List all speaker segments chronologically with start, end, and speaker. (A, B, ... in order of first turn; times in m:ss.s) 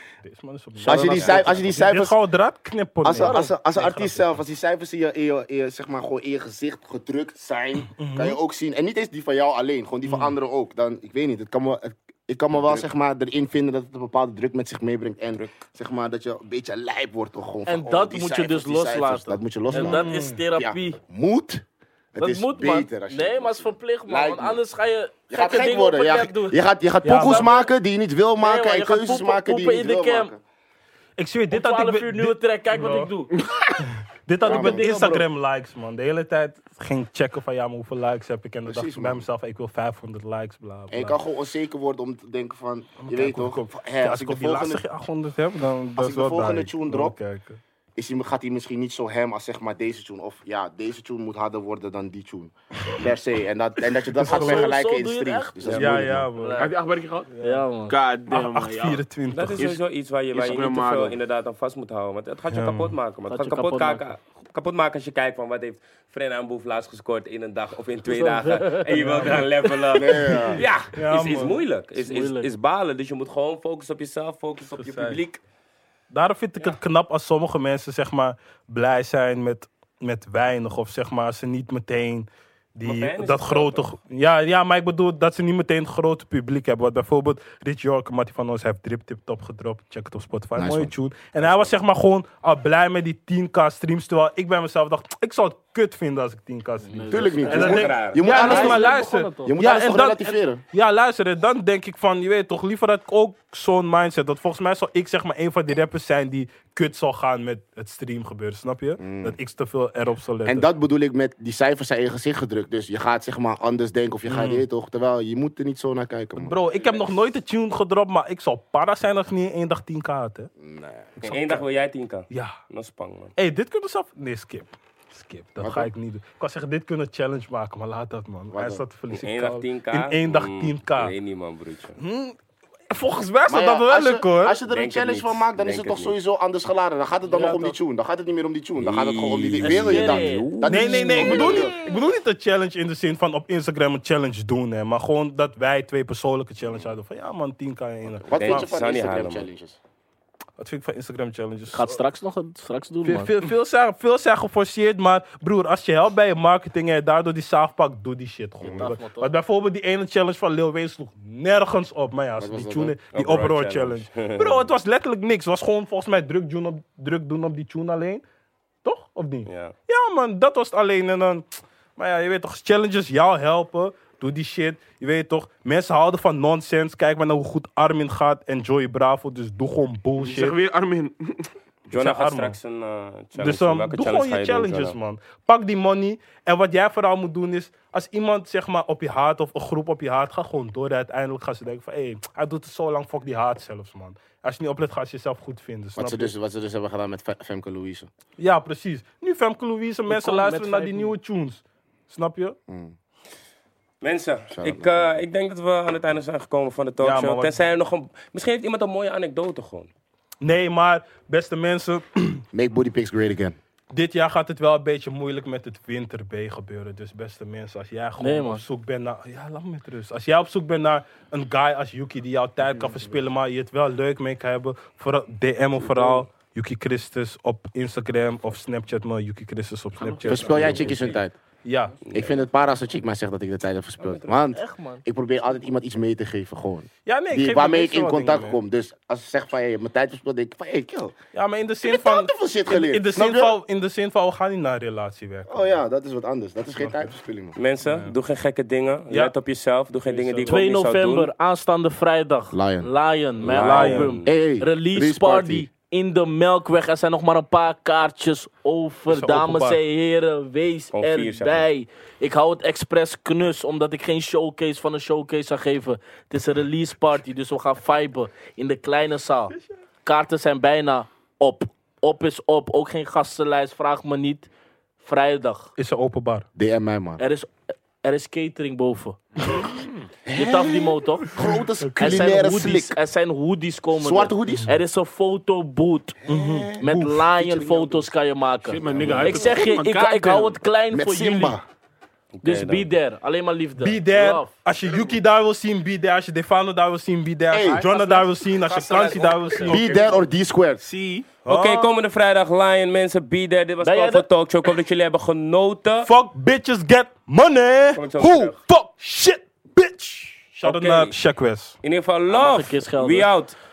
0:00.2-0:04.3 A
0:00.8-0:01.8 B
0:00.9-0:02.2 C
0:01.2-0:01.5 D
0:03.0-0:24.6 C
0:03.1-0:03.5 B
0:07.9-0:08.4 A
0:10.0-0:10.3 A
0:17.7-0:21.0 B
0:19.7-0:20.4 A
0:22.2-0:27.7 B
0:25.3-0:30.4 C
0:27.0-0:27.5 A
0:28.4-0:30.3 B
0:31.2-0:33.1 A
0:31.5-0:33.4 B
0:33.8-0:41.2 A
0:34.4-0:34.9 C
0:34.4-0:35.3 B
0:38.7-0:39.3 C
0:40.9-0:44.8 C
0:43.0-0:47.6 A
0:46.0-0:47.2 C
0:48.0-0:56.3 C
0:54.2-0:54.7 A
0:54.3-0:56.8 B
0:55.6-0:56.7 A
0:56.6-0:57.3 E
0:57.3-0:57.6 A
0:57.4-0:58.0 B
0:57.9-0:59.0 E
0:58.3-0:59.7 A
0:59.3-1:15.4 D
1:00.3-1:01.2 E
1:02.5-1:03.0 A
1:03.3-1:04.1 B
1:08.1-1:09.7 B
1:09.2-1:09.4 A
1:09.9-1:10.6 C
1:10.9-1:11.6 A
1:12.0-1:12.5 B
1:14.7-1:15.2 A
1:16.1-1:50.7 A
1:22.8-1:23.9 D
1:30.6-1:31.7 C
1:36.8-1:39.6 B
1:37.1-1:40.6 C
1:37.5-1:38.8 D
1:49.0-1:49.4 C
1:50.4-1:56.6 C
1:54.3-1:54.7 A
1:56.4-2:00.5 A
2:00.6-2:01.1 C
2:01.2-2:01.6 A
2:01.2-2:03.3 D
2:02.3-2:02.6 A
2:03.4-2:11.1 A
2:05.6-2:05.9 C
2:08.5-2:08.8 C
2:09.1-2:12.0 D
2:12.0-2:12.4 A
2:12.9-2:14.6 A
2:13.5-2:21.8 C
2:14.7-2:16.2 D
2:17.3-2:17.8 B
2:18.8-2:21.7 D
2:19.6-2:20.5 B
2:20.6-2:28.7 A
2:28.3-2:29.8 C
2:28.3-2:29.5 D
2:30.6-2:32.0 A
2:31.7-2:33.4 B
2:33.0-2:48.2 A
2:38.6-2:38.9 C
2:38.8-2:39.3 B
2:42.4-2:43.0 C
2:43.1-2:44.7 D
2:48.8-2:51.4 A
2:49.5-2:49.7 D
2:52.0-3:00.6 A
3:00.2-3:01.5 E
3:01.9-3:05.0 D
3:01.9-3:02.6 A
3:03.4-3:16.3 A
3:16.0-3:18.1 C
3:18.4-3:22.6 A
3:20.1-3:21.1 B
3:22.7-3:23.0 C
3:24.0-3:29.9 D
3:24.5-3:25.1 C
3:27.0-3:27.6 A
3:30.4-3:32.4 A
3:32.5-3:33.6 C
3:33.9-3:52.0 A
3:38.2-3:38.6 B
3:42.7-3:43.0 E
3:45.8-3:46.2 D
3:50.0-3:51.2 E
3:50.3-3:51.4 C
3:52.1-3:52.4 D
3:52.1-4:01.2 C
3:54.0-3:54.4 D
3:54.5-3:55.0 B
3:57.1-3:58.6 A
4:01.3-4:05.7 A
4:01.8-4:03.6 C
4:05.5-4:07.6 C
4:06.8-4:07.1 A
4:07.6-4:11.3 D
4:07.8-4:08.1 A
4:10.0-4:10.6 A
4:10.4-4:34.5 B
4:12.5-4:12.9 C
4:13.4-4:14.3 D
4:13.5-4:14.2 A
4:14.2-4:15.7 C
4:19.1-4:19.8 A
4:20.9-4:21.7 D
4:35.0-4:35.7 B
4:35.8-4:36.5 A
4:36.6-4:37.2 C
4:37.2-4:39.6 B
4:39.4-4:40.1 E
4:40.2-4:43.0 C
4:40.3-4:41.3 B
4:41.8-4:42.2 A
4:42.0-4:46.2 B
4:44.0-4:44.8 C
4:44.5-4:44.8 A
4:46.3-4:48.1 C
4:46.3-4:47.2 A
4:46.8-4:51.6 B
4:48.7-4:50.6 E
4:48.9-4:49.6 C
4:50.9-4:51.6 C
4:52.4-4:52.9 D
4:52.4-4:54.5 B
4:53.8-5:00.1 A
4:54.8-4:55.2 E
4:57.5-4:57.8 C
4:57.6-5:00.2 B
4:59.7-5:00.8 C
5:00.8-5:01.9 A
5:01.5-5:06.1 D
5:03.8-5:04.3 B
5:06.0-5:11.8 A
5:07.9-5:08.6 D
5:10.6-5:11.2 D
5:11.8-5:13.6 D
5:12.3-5:13.3 B